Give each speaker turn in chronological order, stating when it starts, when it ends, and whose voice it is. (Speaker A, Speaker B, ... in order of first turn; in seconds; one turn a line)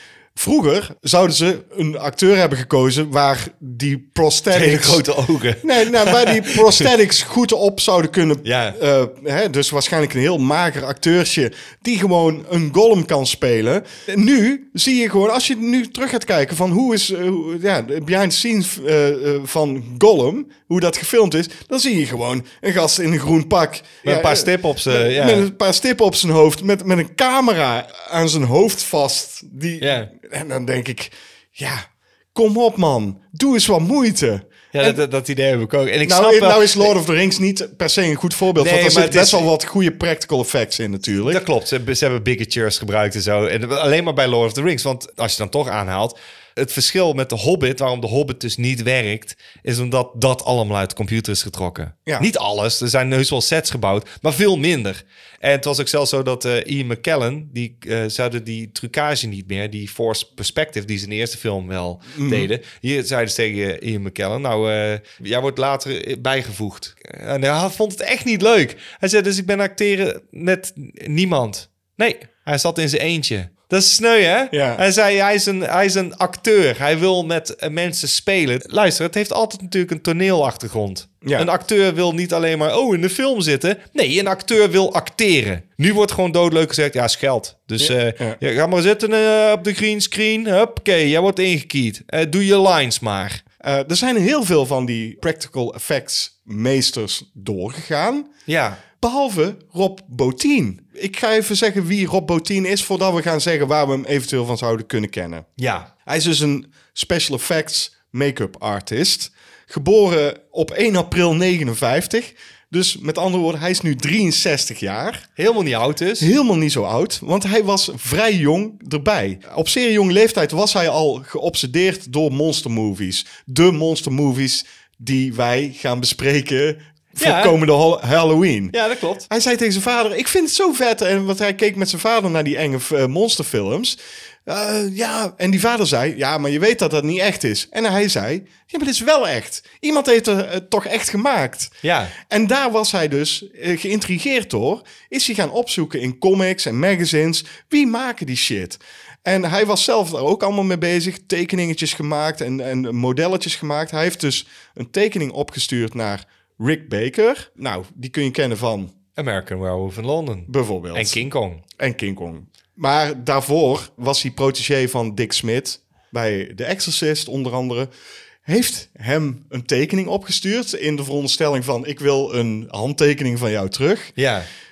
Speaker A: 0.3-5.0
Speaker B: 4.5-6.9
Speaker A: 5.6-35.0
Speaker B: 8.4-8.8
Speaker B: 24.0-25.5
Speaker B: 29.8-30.1
Speaker B: 34.7-36.9
Speaker A: 36.0-41.4
Speaker B: 38.6-39.5
Speaker B: 41.2-93.4
Speaker A: 62.1-62.5
Speaker A: 74.5-74.8
Speaker A: 81.2-81.5
Speaker A: 87.8-88.4
Speaker A: 93.6-98.3
Speaker B: 98.5-98.8
Speaker A: 99.0-105.5
Speaker B: 105.6-105.9
Speaker A: 106.0-115.2
Speaker B: 115.4-116.3
Speaker A: 116.2-128.8
Speaker B: 127.2-127.6
Speaker B: 128.7-129.3
Speaker A: 129.3-158.9
Speaker B: 141.8-142.2
Speaker B: 159.2-161.6
Speaker A: 160.5-161.2
Speaker A: 161.8-167.9
Speaker A: 168.4-174.1
Speaker B: 174.2-174.5